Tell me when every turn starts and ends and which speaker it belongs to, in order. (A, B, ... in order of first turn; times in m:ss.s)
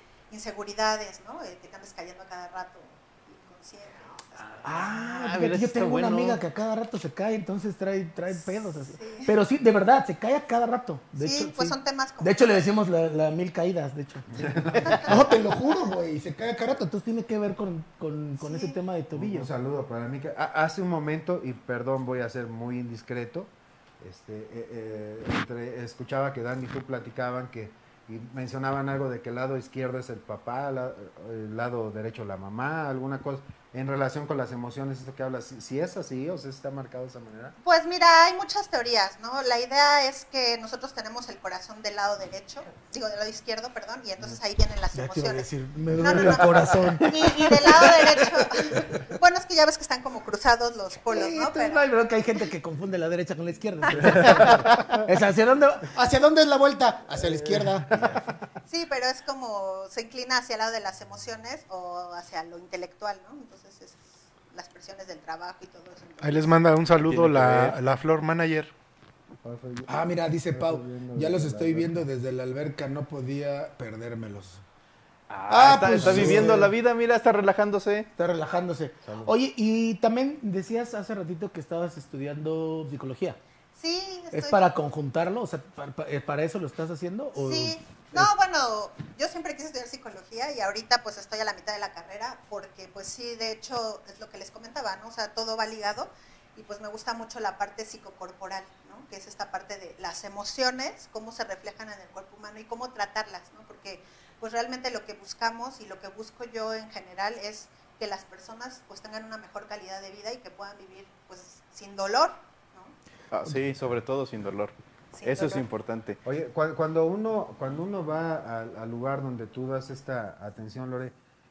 0:00.3-0:04.8 A
0:04.4-0:06.4 B
0:04.6-0:19.5 C
0:08.3-0:09.3 A
0:11.2-0:12.5 A
0:14.4-0:15.4 D
0:18.4-0:18.8 A
0:19.1-0:37.6 D
0:37.6-0:51.9 A
0:44.9-0:49.0 C
0:51.1-0:58.2 C
0:57.1-0:58.0 D
0:58.7-1:06.5 A
1:06.2-1:08.7 E
1:07.1-1:07.8 B
1:09.4-1:12.1 D
1:09.9-1:14.6 C
1:15.3-1:18.1 B
1:15.5-1:16.7 C
1:15.8-1:16.7 D
1:18.1-1:23.4 C
1:19.0-1:19.3 D
1:23.7-1:24.7 A
1:24.3-1:28.3 C
1:27.3-1:52.9 A
1:53.3-1:56.2 B
1:55.1-1:55.6 A
1:56.2-2:01.1 D